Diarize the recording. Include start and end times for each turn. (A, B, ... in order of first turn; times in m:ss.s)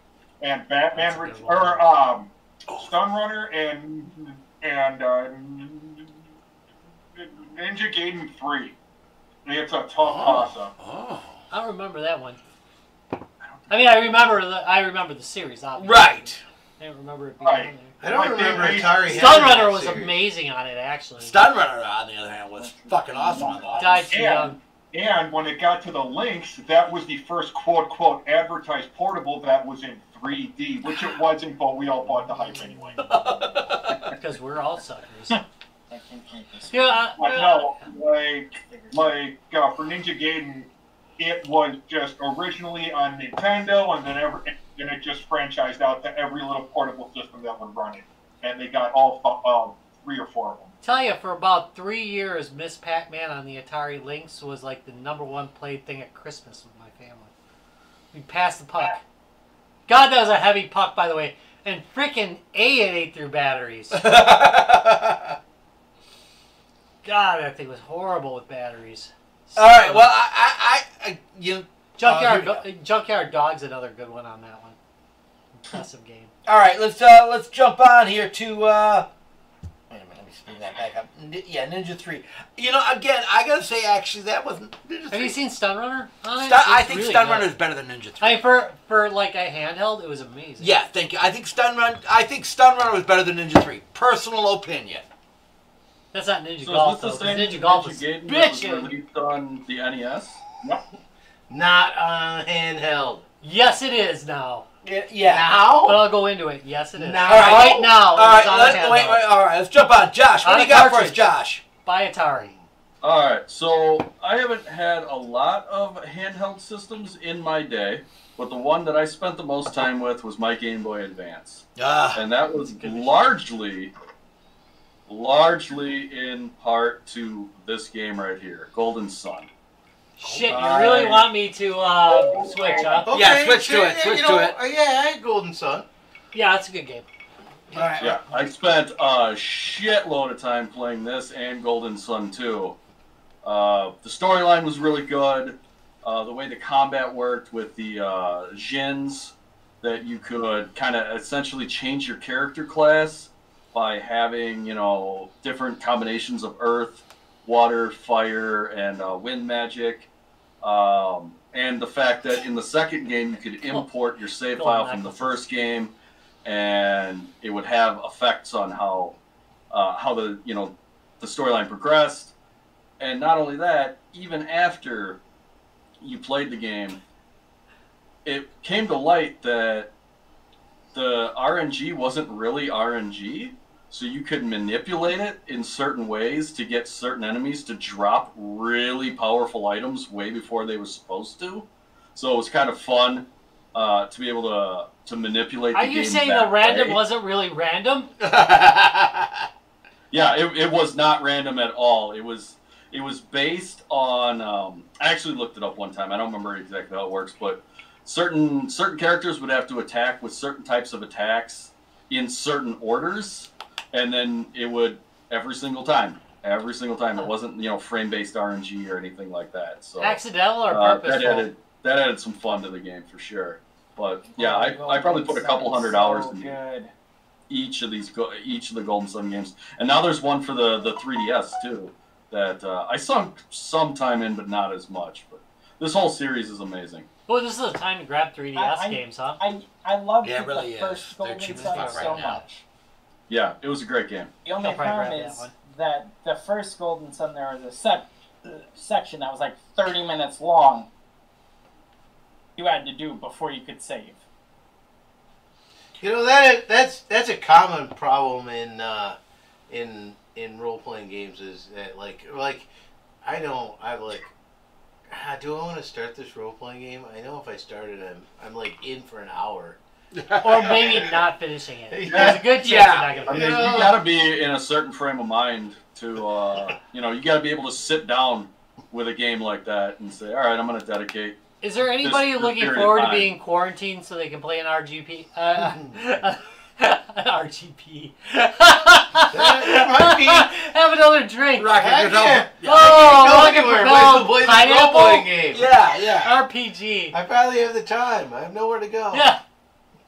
0:00.4-0:06.2 A
0:00.9-0:01.9 B
0:07.1-0:08.7 A
0:09.4-0:10.7 A
0:10.0-0:11.4 C
0:11.5-0:12.4 B
0:13.4-0:14.4 A
0:13.7-0:21.4 B
0:15.8-0:16.4 C
0:17.4-0:19.4 A
0:18.0-0:20.3 D
0:21.2-0:24.1 C
0:22.6-0:33.4 A
0:23.8-0:24.6 B
0:33.0-0:34.0 C
0:34.1-0:35.4 B
0:35.9-0:36.7 E
0:36.7-0:37.8 B
0:37.2-0:50.7 A
0:38.8-0:39.1 E
0:50.8-0:57.3 B
0:58.1-0:59.0 B
0:59.9-1:04.0 B
1:03.9-1:05.4 C
1:07.0-1:10.1 B
1:09.5-1:12.6 C
1:12.0-1:14.8 B
1:15.6-1:16.3 B
1:16.4-1:19.1 C
1:19.9-1:25.4 C
1:25.1-1:27.5 B
1:26.4-1:28.4 C
1:28.2-1:30.8 B
1:30.6-1:35.0 C
1:36.1-1:38.9 B
1:36.6-1:40.8 F
1:41.5-1:43.2 D
1:43.4-1:44.7 B
1:44.8-1:45.5 C
1:45.2-1:46.1 D
1:45.8-1:49.3 B
1:46.9-1:47.9 D
1:47.2-1:51.6 C
1:50.4-1:51.3 B
1:51.8-1:52.5 B
1:53.0-2:01.6 F
2:01.8-2:02.2 C
2:02.1-2:03.9 F
2:02.6-2:03.4 B
2:05.1-2:09.5 F
2:10.2-2:13.1 B
2:10.2-2:10.7 C
2:10.5-2:11.3 F
2:12.1-2:13.1 A
2:12.2-2:12.6 F
2:13.0-2:15.8 D
2:13.1-2:14.5 C
2:16.3-2:17.0 B
2:17.7-2:18.2 C
2:18.0-2:22.8 F
2:23.4-2:40.1 F
2:40.6-2:45.9 F
2:44.6-2:45.4 B
2:46.4-2:49.2 F
2:49.7-2:52.3 F
2:53.0-2:55.2 F
2:56.0-2:57.0 F
2:58.2-2:59.9 F
3:00.9-3:17.0 F
3:15.7-3:18.1 B
3:18.2-3:19.4 C
3:20.1-3:46.6 F
3:40.0-3:41.5 B
3:44.3-3:46.9 E
3:47.5-3:57.1 F
3:57.3-3:59.4 B
3:58.5-4:02.4 E
4:00.2-4:02.6 C
4:01.5-4:02.2 B
4:03.3-4:04.3 F
4:04.4-4:10.9 E
4:04.6-4:05.5 B
4:12.6-4:14.2 E
4:16.0-4:19.2 D
4:19.7-4:22.7 D
4:23.2-4:24.3 D
4:25.1-4:29.8 D
4:30.1-4:30.8 C
4:30.4-4:33.9 B
4:30.5-4:31.1 D
4:31.9-4:32.4 D
4:32.5-4:33.1 C
4:33.3-4:34.0 D
4:33.3-4:41.4 F
4:41.6-4:51.8 B
4:42.0-4:43.3 F
4:45.6-4:45.9 D
4:49.3-4:50.5 D
4:51.6-4:53.3 C
4:51.8-4:55.7 D
4:52.6-4:55.3 B
4:55.5-4:56.3 C
4:56.2-4:57.2 B
4:57.1-4:59.3 D
4:59.1-4:59.4 B